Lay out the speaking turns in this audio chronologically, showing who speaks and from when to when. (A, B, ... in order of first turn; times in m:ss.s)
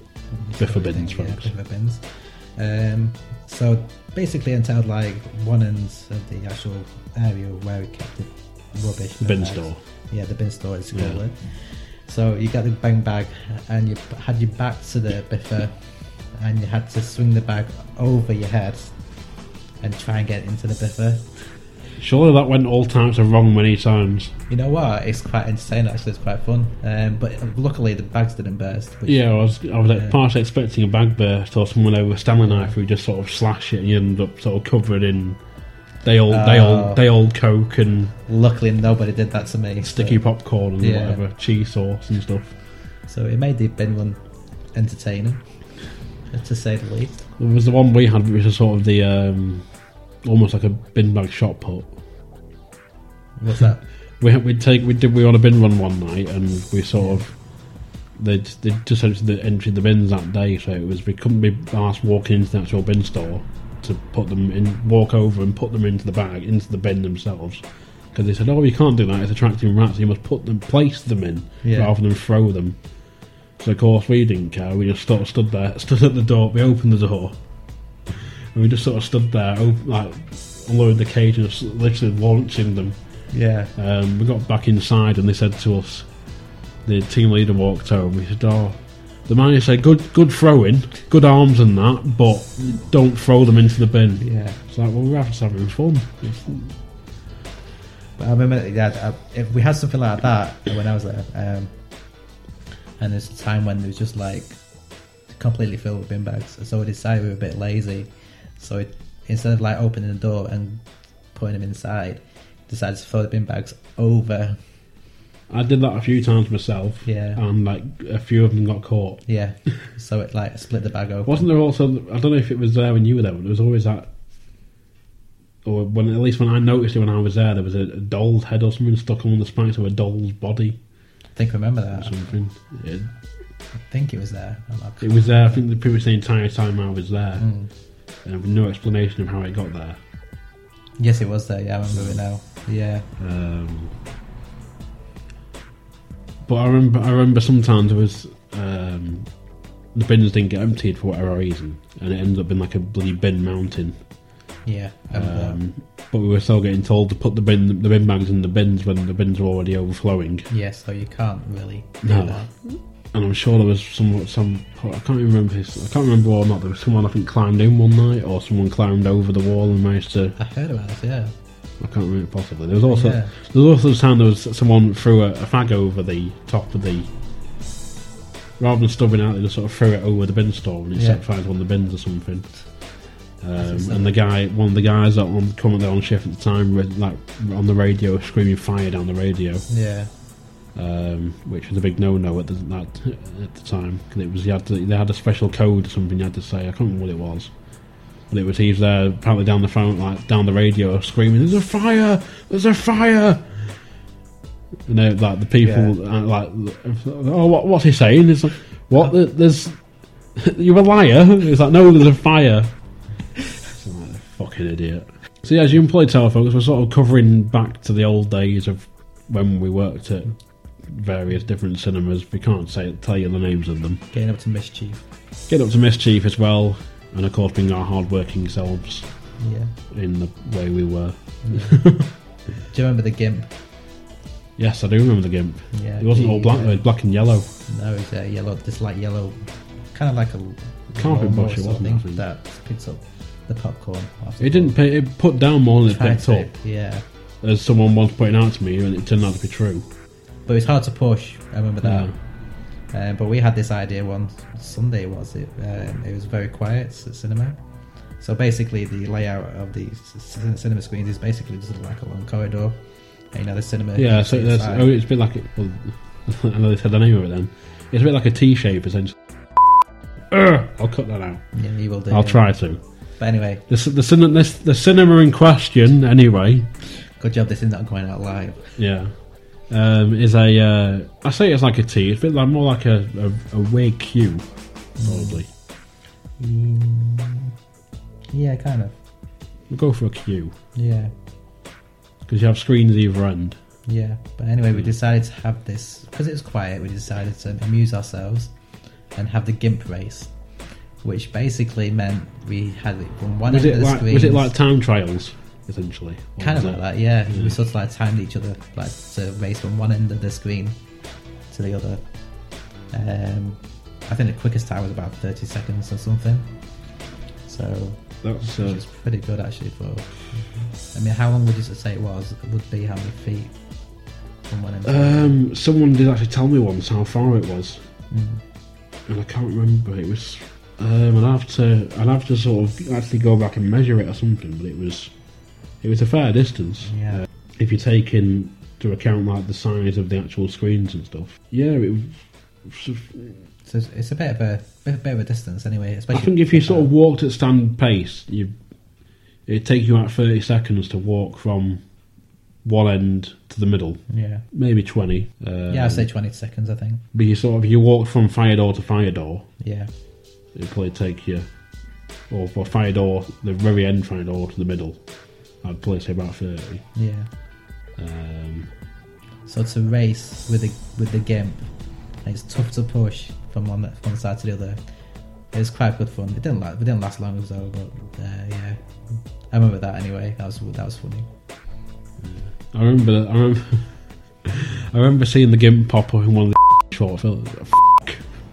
0:00.3-0:15.8 A
0:00.6-0:01.5 B
0:09.2-0:09.8 B
0:10.9-0:11.2 B
0:16.3-0:18.9 A
0:19.8-0:21.4 A
0:22.0-0:24.3 B
0:24.5-0:29.4 A
0:29.0-0:35.4 B
0:29.9-0:30.2 A
0:32.4-0:32.7 A
0:36.0-0:38.1 B
0:36.3-0:37.0 A
0:38.3-0:40.2 A
0:39.8-0:42.5 B
0:40.8-0:41.2 A
0:43.1-0:44.2 A
0:44.7-0:45.4 A
0:46.3-0:47.2 A
0:47.4-0:49.6 B
0:50.2-0:51.9 B
0:53.4-0:53.8 A
0:54.2-0:57.3 B
0:56.9-0:57.2 A
0:58.2-1:12.8 B
1:11.6-1:11.9 A
1:13.6-1:17.4 B
1:18.1-1:23.2 B
1:23.3-1:23.7 A
1:23.7-1:26.1 B
1:26.8-1:36.7 B
1:34.2-1:34.6 A
1:38.2-1:41.7 A
1:43.0-1:44.6 A
1:45.3-1:54.6 A
1:55.5-1:59.2 B
1:57.0-1:57.4 A
1:59.2-2:01.5 A
2:01.2-2:04.1 B
2:05.6-2:10.8 B
2:11.3-2:12.2 A
2:11.9-2:13.1 B
2:13.7-2:15.6 A
2:15.0-2:17.5 B
2:17.4-2:17.7 A
2:18.2-2:20.0 B
2:21.0-2:23.0 A
2:21.9-2:22.2 B
2:23.2-2:23.9 B
2:26.4-2:29.3 B
2:29.9-2:34.0 B
2:34.6-2:35.6 A
2:35.1-2:40.5 B
2:40.5-2:42.5 A
2:42.0-2:50.4 B
2:50.4-2:51.3 A
2:51.8-2:57.1 B
2:52.8-2:53.3 A
2:58.6-3:09.7 B
3:00.9-3:01.2 A
3:03.6-3:04.2 A
3:09.7-3:10.1 A
3:10.7-3:17.5 B
3:18.3-3:23.8 B
3:24.9-3:29.8 B
3:25.6-3:25.9 A
3:30.3-3:32.7 B
3:33.7-3:44.0 B
3:44.1-3:45.0 A
3:45.5-3:49.3 B
3:49.4-3:49.7 A
3:49.9-3:52.1 B
3:51.4-3:53.5 A
3:54.6-3:57.5 B
3:55.7-3:56.8 A
3:57.7-4:04.8 A
4:00.9-4:02.2 B
4:04.4-4:06.6 B
4:05.9-4:07.0 A
4:07.4-4:09.9 B
4:10.4-4:12.1 A
4:11.8-4:12.1 B
4:12.9-4:24.9 A
4:24.0-4:31.4 B
4:31.5-4:32.5 A
4:32.1-4:32.8 B
4:33.2-4:33.6 A
4:33.7-4:36.7 B
4:37.2-4:38.8 A
4:38.8-4:44.4 B
4:45.0-4:45.5 A
4:45.0-4:45.5 B
4:46.4-4:47.5 A
4:48.3-4:48.9 A
4:49.7-4:50.6 B
4:50.7-4:51.1 A
4:52.2-4:53.6 B
4:53.8-4:58.5 A
4:59.1-5:00.3 A
5:01.0-5:04.5 A
5:03.4-5:07.6 B
5:06.4-5:10.8 A
5:11.5-5:16.8 A
5:17.4-5:23.5 A
5:18.2-5:18.8 B
5:24.5-5:25.3 A
5:24.8-5:27.8 B
5:28.1-5:28.4 A
5:29.0-5:35.1 B
5:35.8-5:43.4 B
5:36.8-5:37.2 A
5:43.6-5:46.9 A
5:46.1-5:48.5 B
5:49.4-5:51.8 B
5:52.6-5:56.1 B
5:54.1-5:54.4 A
5:55.7-5:57.0 A
5:57.1-5:59.5 B
5:59.6-5:59.9 A
6:00.5-6:01.5 B
6:02.3-6:05.0 B
6:05.6-6:06.8 B
6:06.9-6:07.3 A
6:08.0-6:08.7 B
6:09.4-6:14.8 A
6:15.5-6:18.8 A
6:19.5-6:21.3 A
6:22.2-6:28.3 B